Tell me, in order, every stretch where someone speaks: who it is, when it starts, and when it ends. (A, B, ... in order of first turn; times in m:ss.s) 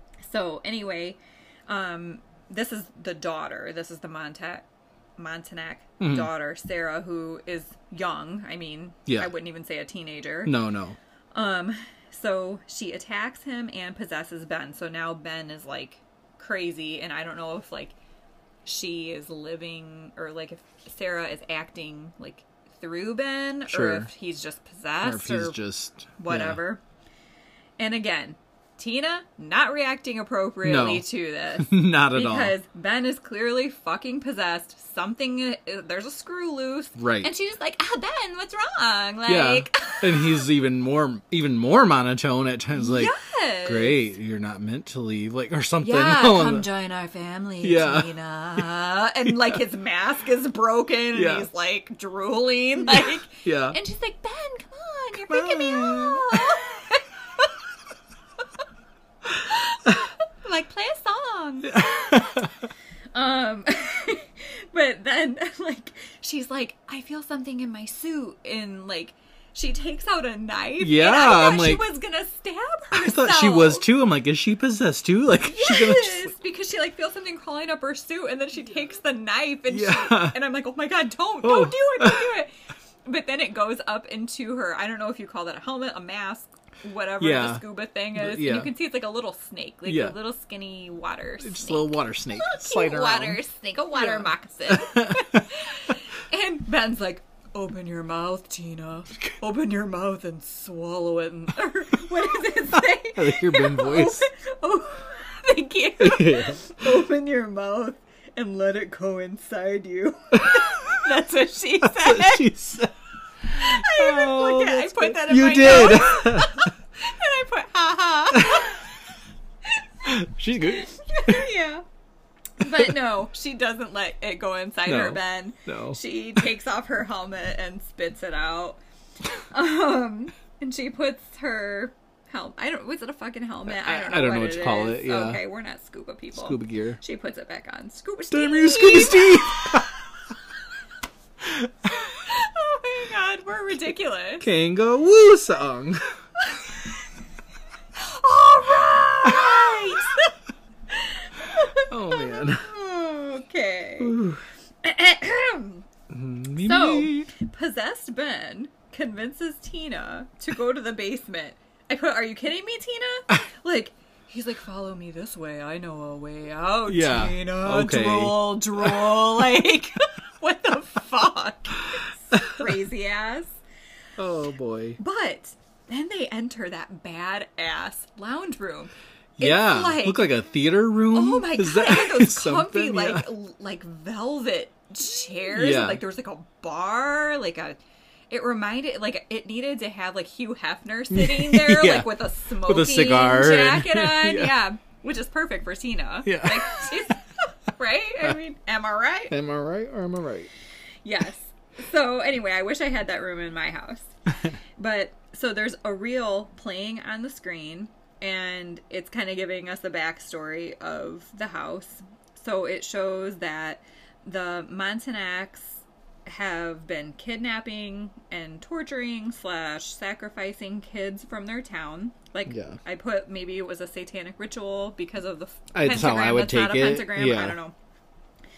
0:00.3-0:04.6 A
0:05.2-0:10.6 A
0:06.0-0:06.3 B
0:10.4-0:11.0 B
0:11.3-0:18.0 A
0:18.6-0:25.6 A
0:23.7-0:24.1 B
0:25.0-0:26.6 B
0:26.2-0:26.8 A
0:27.8-0:40.5 A
0:30.6-0:32.6 B
0:37.0-0:37.3 B
0:39.3-0:43.1 B
0:42.8-0:44.1 A
0:43.6-0:46.7 B
0:45.8-0:57.6 A
0:47.6-0:48.6 B
0:49.3-0:49.6 B
0:51.1-0:51.5 B
0:53.0-0:53.8 B
0:55.3-0:56.6 B
0:59.4-1:02.4 A
1:01.6-1:02.5 B
1:03.1-1:13.9 A
1:10.8-1:11.9 B
1:12.9-1:16.3 B
1:15.4-1:22.5 A
1:19.7-1:20.4 B
1:21.4-1:22.3 B
1:23.0-1:52.5 A
1:27.2-1:28.7 B
1:29.9-1:30.2 B
1:31.4-1:33.4 B
1:34.0-1:35.4 B
1:43.1-1:44.2 B
1:46.0-1:46.7 B
1:50.5-1:50.9 B
1:51.8-1:52.9 B
1:53.4-1:56.7 B
1:53.5-1:58.9 A
1:58.3-1:58.7 B
2:00.0-2:01.4 B
2:00.7-2:01.8 A
2:02.6-2:08.8 A
2:02.6-2:02.9 B
2:04.9-2:06.0 B
2:09.4-2:19.9 A
2:13.7-2:15.4 B
2:16.4-2:17.0 B
2:18.3-2:20.0 B
2:22.0-2:24.5 A
2:24.4-2:26.0 B
2:26.4-2:26.9 A
2:28.0-2:30.4 A
2:30.9-2:34.2 A
2:31.8-2:32.7 B
2:34.0-2:34.4 B
2:34.8-2:35.9 A
2:36.1-2:37.3 B
2:36.6-2:53.5 A
2:46.9-2:49.2 B
2:52.3-2:52.7 B
2:54.2-2:55.0 B
2:55.0-3:00.3 A
2:59.4-3:03.3 B
3:01.1-3:07.8 A
3:05.5-3:06.0 B
3:08.3-3:19.4 A
3:11.1-3:14.6 B
3:16.2-3:17.1 B
3:19.3-3:20.5 B
3:21.0-3:24.1 A
3:24.8-3:47.7 A
3:42.5-3:42.8 B
3:45.7-3:47.6 B